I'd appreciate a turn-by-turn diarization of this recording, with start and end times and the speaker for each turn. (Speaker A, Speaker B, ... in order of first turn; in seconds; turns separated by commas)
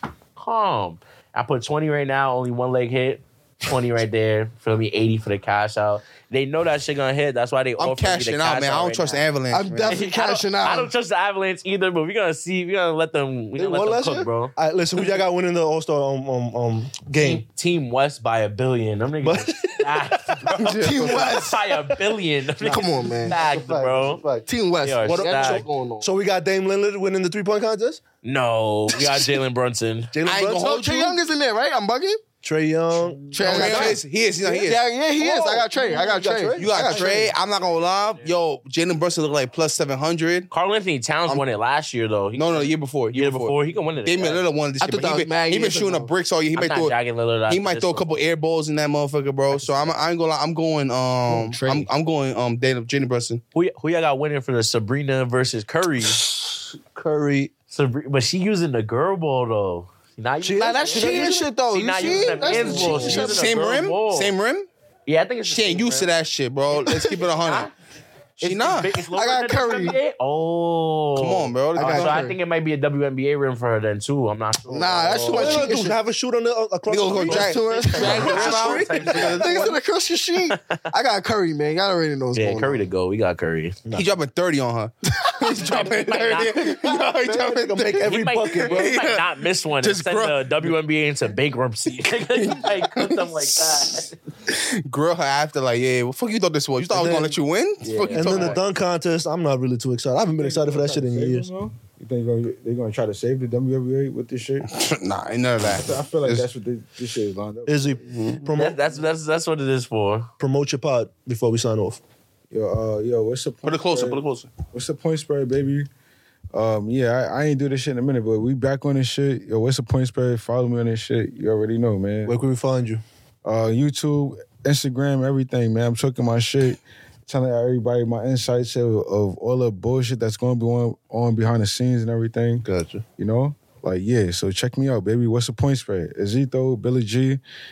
Speaker A: 0.4-9.2, Speaker B: 7.8-10.0, Speaker C: 9.5-10.9, Speaker A: 9.8-14.5, Speaker D: 13.6-17.4, Speaker A: 17.2-24.2, Speaker D: 19.2-20.4, Speaker B: 20.5-21.3, Speaker C: 20.7-21.6, Speaker D: 22.6-24.5, Speaker C: 22.6-23.4, Speaker C: 24.5-26.1, Speaker A: 24.8-25.6, Speaker D: 25.0-28.0, Speaker A: 28.2-30.1, Speaker D: 30.1-30.8, Speaker B: 30.2-31.2, Speaker C: 30.5-32.2, Speaker D: 32.4-37.3, Speaker C: 33.3-34.0, Speaker B: 33.4-34.8, Speaker A: 33.4-34.0, Speaker C: 34.6-37.0, Speaker B: 36.5-40.5, Speaker A: 37.9-38.3, Speaker A: 40.5-44.4, Speaker B: 42.4-46.9, Speaker C: 44.8-46.1, Speaker A: 46.5-48.2, Speaker B: 47.5-53.4, Speaker A: 49.5-49.9, Speaker C: 51.3-51.9, Speaker A: 53.5-56.2, Speaker D: 56.0-57.5, Speaker A: 57.7-64.3, Speaker D: 60.4-63.2, Speaker C: 60.5-63.4, Speaker B: 63.0-64.7, Speaker A: 65.1-66.1, Speaker B: 65.4-67.7, Speaker C: 66.8-67.1, Speaker A: 66.9-67.7, Speaker B: 68.4-68.9, Speaker A: 68.4-75.7, Speaker C: 69.0-70.0, Speaker B: 71.2-72.2, Speaker C: 71.8-72.4, Speaker C: 74.7-76.0, Speaker D: 75.3-79.8, Speaker B: 76.9-79.3, Speaker C: 77.2-78.3, Speaker A: 77.2-79.7, Speaker C: 79.1-82.8, Speaker A: 80.5-80.8, Speaker A: 82.3-83.8, Speaker B: 83.9-90.7, Speaker A: 85.6-86.7, Speaker D: 86.5-88.9, Speaker A: 87.9-94.1, Speaker B: 92.1-98.6, Speaker D: 96.9-97.4, Speaker A: 97.8-98.6, Speaker D: 98.1-101.5, Speaker E: 100.4-104.7, Speaker B: 104.7-106.5, Speaker E: 105.7-108.2, Speaker D: 107.7-108.8, Speaker A: 108.5-110.3, Speaker D: 110.4-112.0, Speaker E: 112.5-114.2, Speaker B: 113.6-114.2, Speaker A: 113.9-114.5, Speaker E: 114.7-115.9, Speaker E: 116.5-122.3, Speaker D: 122.2-123.0, Speaker E: 123.4-132.6, Speaker D: 132.6-133.0, Speaker E: 133.2-137.4